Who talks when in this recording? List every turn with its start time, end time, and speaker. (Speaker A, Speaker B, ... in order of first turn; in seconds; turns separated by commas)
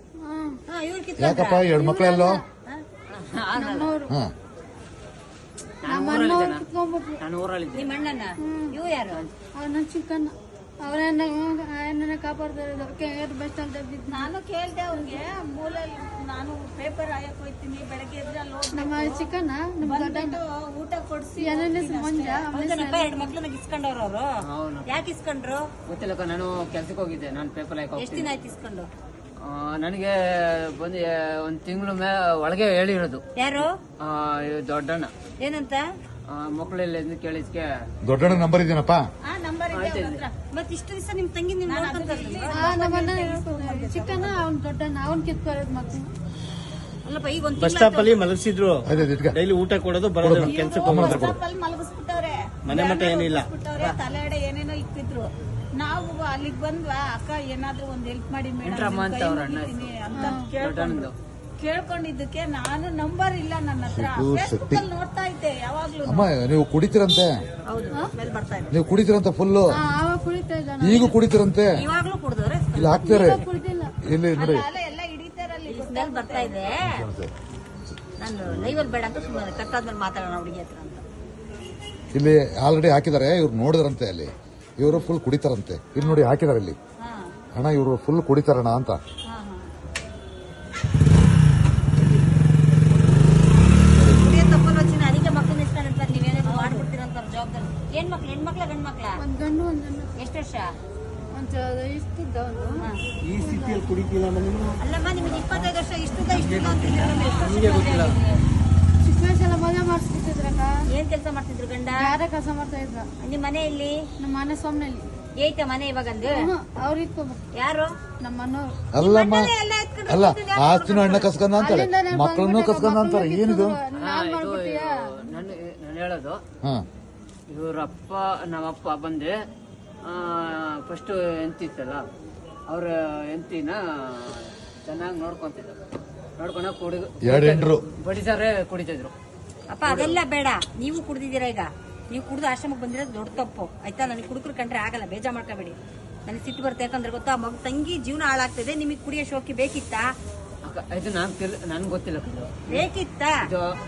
Speaker A: 0.2-0.6, Speaker B: 0.7-1.6, Speaker C: 1.2-2.4, Speaker A: 1.8-2.4, Speaker D: 3.1-3.9, Speaker A: 3.6-4.1, Speaker D: 5.8-6.6, Speaker A: 5.9-7.2, Speaker D: 7.2-8.0, Speaker B: 7.7-9.2, Speaker A: 8.4-8.8, Speaker A: 9.6-14.3, Speaker E: 14.1-19.3, Speaker A: 14.9-15.2, Speaker A: 18.7-20.4, Speaker E: 19.8-22.5, Speaker A: 21.4-23.3, Speaker B: 22.5-24.2, Speaker D: 24.5-24.9, Speaker B: 24.9-25.6, Speaker D: 25.9-28.3, Speaker B: 27.9-28.9, Speaker D: 29.5-35.1, Speaker B: 33.4-33.7, Speaker B: 35.4-35.8, Speaker D: 36.3-37.7, Speaker C: 38.0-39.0, Speaker E: 39.2-40.4, Speaker D: 39.7-40.2, Speaker B: 40.5-42.7, Speaker E: 41.6-44.4, Speaker A: 42.5-46.1, Speaker B: 47.0-48.1, Speaker F: 47.6-51.4, Speaker C: 48.8-49.4, Speaker C: 50.2-51.3, Speaker E: 50.4-66.3, Speaker F: 52.6-54.0, Speaker D: 58.6-59.9, Speaker A: 60.1-60.5, Speaker D: 60.6-61.1, Speaker C: 63.9-64.8, Speaker C: 66.0-67.3, Speaker B: 67.7-68.7, Speaker C: 68.7-69.8, Speaker A: 69.7-71.2, Speaker C: 70.8-71.8, Speaker B: 71.7-73.5, Speaker C: 72.7-73.4, Speaker A: 73.0-73.9, Speaker C: 74.0-74.7, Speaker E: 74.3-76.7, Speaker B: 75.7-77.0, Speaker C: 76.8-77.3, Speaker B: 78.2-81.0, Speaker C: 78.5-78.9, Speaker C: 82.1-86.8, Speaker B: 87.0-87.3, Speaker C: 87.5-89.0, Speaker B: 89.3-89.7, Speaker C: 94.0-94.2, Speaker B: 94.2-99.2, Speaker A: 99.2-100.2, Speaker B: 100.2-100.7, Speaker A: 101.3-103.9, Speaker F: 103.3-104.8, Speaker B: 104.8-108.4, Speaker F: 105.3-105.6, Speaker F: 106.3-108.2, Speaker A: 109.0-110.7, Speaker B: 110.9-112.1, Speaker A: 112.0-113.1, Speaker B: 113.2-113.9, Speaker A: 114.2-115.0, Speaker B: 115.4-116.4, Speaker A: 116.2-117.4, Speaker B: 117.6-117.9, Speaker A: 118.2-118.7, Speaker C: 118.9-119.5, Speaker B: 119.0-121.3, Speaker C: 120.1-123.8, Speaker A: 121.6-125.5, Speaker D: 124.0-126.4, Speaker D: 127.5-129.3, Speaker D: 130.1-132.0, Speaker D: 132.7-135.8, Speaker D: 136.4-139.1, Speaker C: 137.2-137.8, Speaker B: 139.7-150.1, Speaker D: 139.8-140.2, Speaker D: 150.7-152.9, Speaker B: 152.7-153.3